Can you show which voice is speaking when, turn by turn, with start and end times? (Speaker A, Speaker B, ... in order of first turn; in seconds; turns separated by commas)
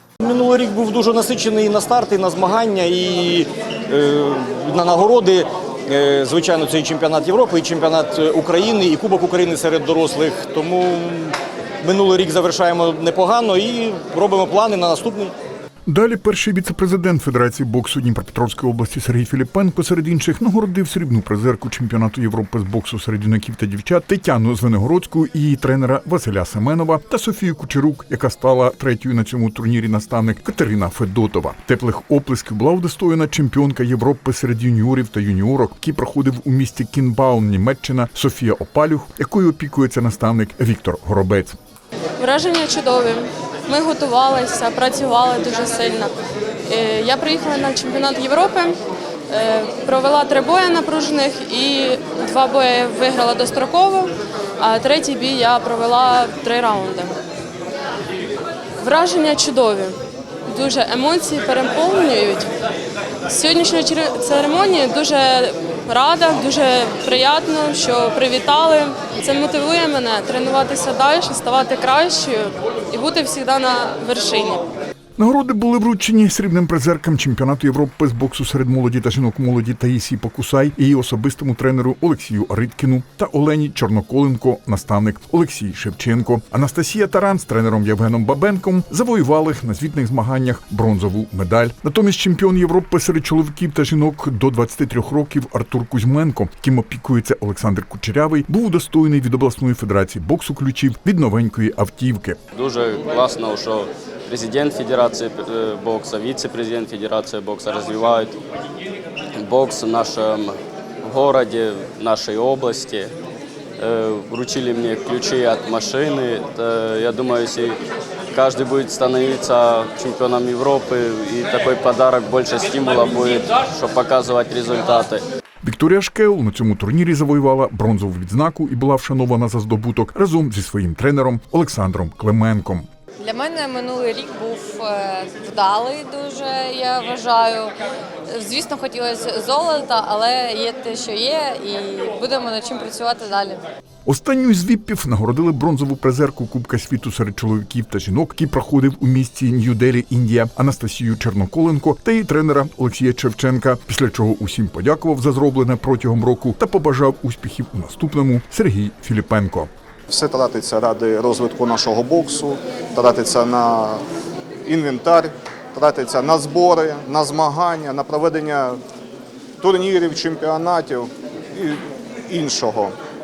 Speaker A: 0.2-15.3, Speaker B: 15.9-41.6, Speaker C: 42.2-46.1, Speaker C: 46.7-48.8, Speaker C: 49.3-57.1, Speaker C: 58.8-60.0, Speaker C: 60.5-62.5, Speaker C: 63.3-74.6, Speaker B: 75.2-102.4, Speaker D: 102.5-108.4, Speaker D: 109.4-113.1, Speaker D: 113.8-117.8, Speaker D: 118.3-125.2, Speaker B: 125.6-132.9, Speaker E: 133.2-137.8, Speaker E: 138.3-143.6, Speaker B: 144.1-159.7, Speaker F: 160.1-164.0, Speaker F: 164.7-168.8, Speaker F: 169.6-172.9